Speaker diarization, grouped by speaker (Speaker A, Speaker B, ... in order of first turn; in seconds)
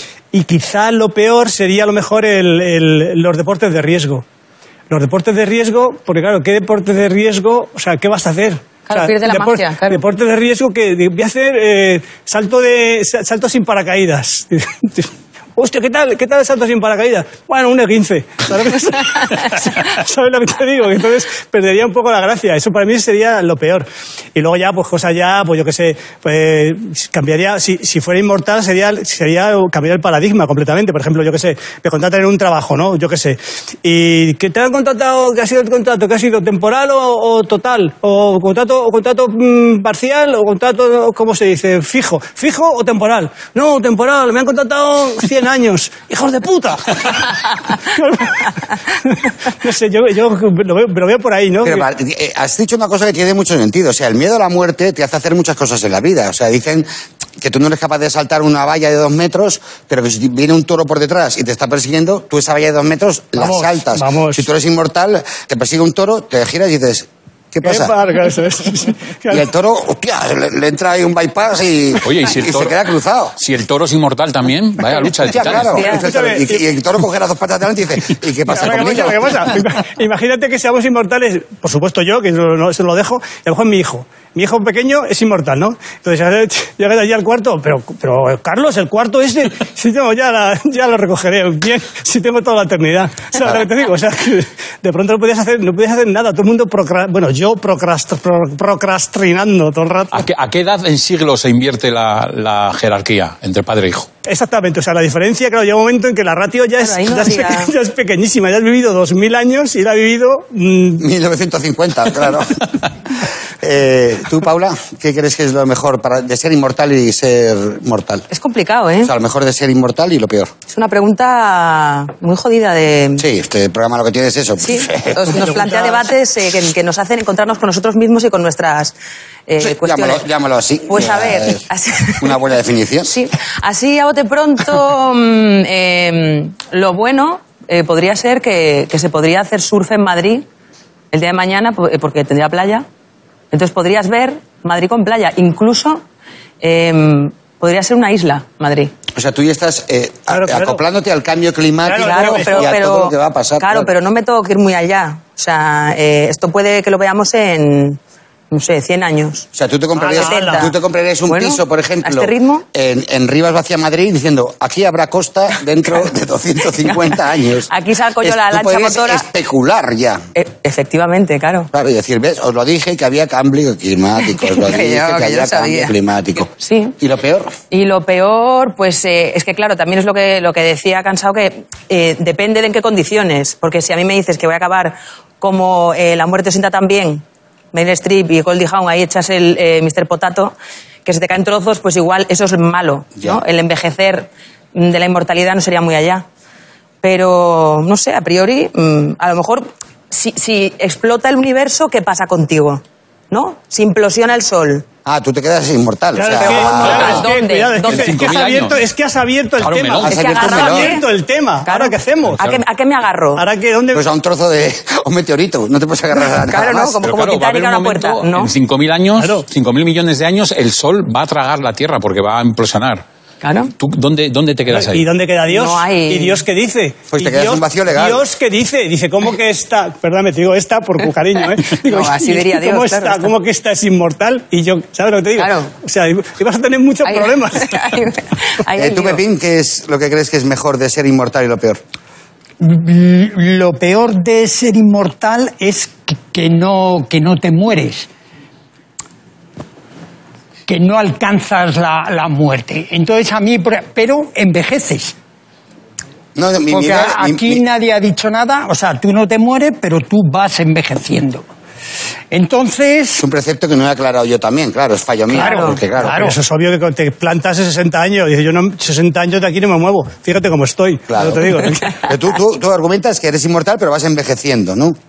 Speaker A: 0.3-4.2, 4.9-51.9, 63.4-64.5, 67.6-69.5, 75.8-76.6, 78.5-100.2, 104.2-111.1, 125.3-126.1, 150.3-150.8, 151.8-152.7, 159.9-160.6, 206.1-212.4, 213.3-214.1, 219.2-219.4, 224.7-237.9, 266.0-272.0
Speaker B: 8.9-10.0, 106.8-107.7, 118.3-119.1, 120.7-123.2, 124.6-128.9, 129.5-130.2, 130.9-132.4, 133.0-140.4, 141.1-142.8, 143.5-146.0, 146.6-148.9, 151.9-158.0, 158.5-159.5, 160.0-160.7, 161.3-162.6, 167.7-169.3, 170.3-171.7, 174.2-176.9, 177.7-196.2, 197.0-204.8, 206.4-208.3, 210.1-211.1, 211.6-213.4, 216.4-218.5, 223.4-223.7, 225.5-226.4, 231.7-233.3, 235.3-235.7, 237.0-239.2, 265.3-265.8
Speaker C: 51.6-56.9, 57.4-67.9, 69.3-73.3, 75.2-79.5, 111.0-112.7, 113.6-118.2, 119.0-120.5, 123.2-125.4, 129.6-131.6, 132.2-133.1, 149.1-153.9, 159.5-167.7, 168.2-170.2, 171.7-177.5, 205.0-207.2, 210.0-210.9, 213.9-217.0, 227.1-228.2, 238.8-241.8, 256.4-257.6, 263.2-266.4, 271.1-275.0
Speaker D: 72.0-72.8, 73.4-75.8, 100.1-104.1, 206.9-207.2, 207.8-208.8, 209.6-210.2, 217.0-223.0, 223.8-225.1
Speaker E: 242.6-248.1, 250.7-255.1, 256.7-261.4, 262.3-263.2